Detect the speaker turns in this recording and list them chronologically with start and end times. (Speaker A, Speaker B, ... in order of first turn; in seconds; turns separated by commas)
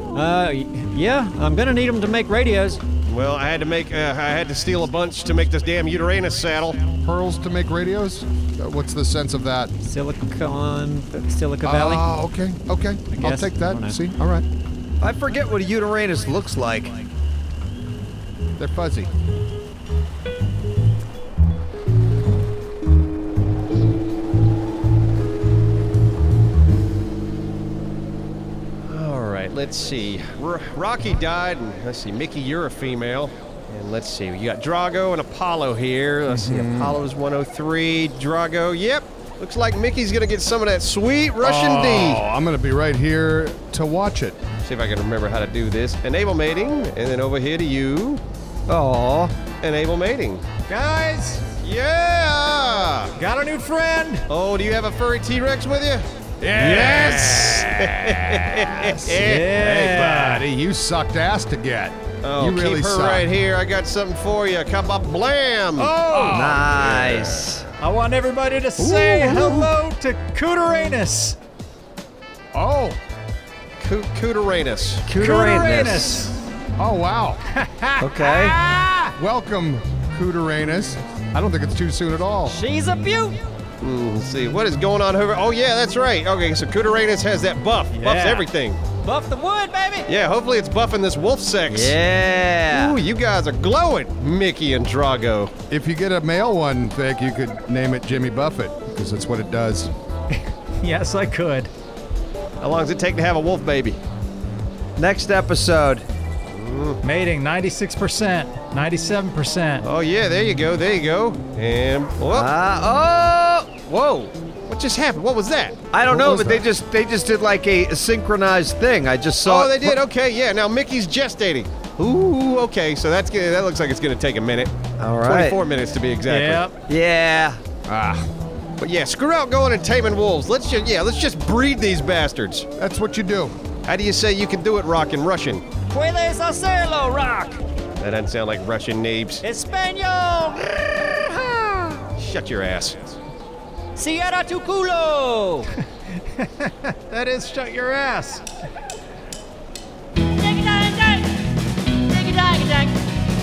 Speaker A: 0.1-2.8, Speaker B: 3.1-6.8, Speaker C: 7.0-9.7, Speaker A: 9.8-12.1, Speaker C: 11.6-14.4, Speaker A: 13.1-14.0, Speaker D: 15.0-17.0, Speaker C: 18.6-19.1, Speaker B: 28.9-42.2, Speaker C: 36.3-37.0, Speaker C: 41.4-44.4, Speaker B: 44.6-48.2, Speaker D: 48.7-49.3, Speaker B: 49.6-50.5, Speaker E: 50.7-51.4, Speaker B: 51.6-53.1, Speaker E: 53.2-54.2, Speaker B: 54.3-60.1, Speaker C: 56.4-59.2, Speaker E: 59.0-60.5, Speaker C: 59.9-63.3, Speaker B: 62.2-66.0, Speaker E: 65.8-66.6, Speaker C: 66.1-67.5, Speaker D: 66.3-67.7, Speaker E: 67.8-71.4, Speaker C: 68.8-69.7, Speaker C: 72.5-73.0, Speaker B: 73.8-75.0, Speaker D: 75.1-76.2, Speaker E: 75.1-76.4, Speaker C: 76.8-77.4, Speaker E: 77.5-79.2, Speaker D: 78.0-78.6, Speaker C: 79.2-82.6, Speaker A: 82.5-83.4, Speaker B: 83.8-88.8, Speaker E: 87.9-88.5, Speaker A: 89.0-90.1, Speaker B: 90.1-92.0, Speaker D: 91.7-93.0, Speaker B: 92.7-95.5, Speaker C: 95.7-99.9, Speaker E: 100.3-101.7, Speaker B: 102.6-104.0, Speaker D: 105.0-106.0, Speaker B: 106.5-107.0, Speaker E: 107.0-109.8, Speaker B: 109.8-112.5, Speaker D: 112.3-114.3, Speaker B: 114.7-115.8, Speaker D: 115.9-120.0, Speaker C: 116.1-116.6, Speaker B: 119.4-126.7, Speaker D: 125.0-125.6, Speaker E: 126.2-126.7, Speaker D: 126.9-127.6, Speaker C: 127.9-128.3, Speaker B: 128.8-132.7, Speaker C: 132.8-133.6, Speaker B: 133.8-135.6, Speaker A: 135.9-137.6, Speaker B: 138.0-139.4, Speaker A: 139.4-141.2, Speaker B: 142.2-143.2, Speaker A: 143.9-145.7, Speaker E: 146.1-148.5, Speaker A: 150.3-153.0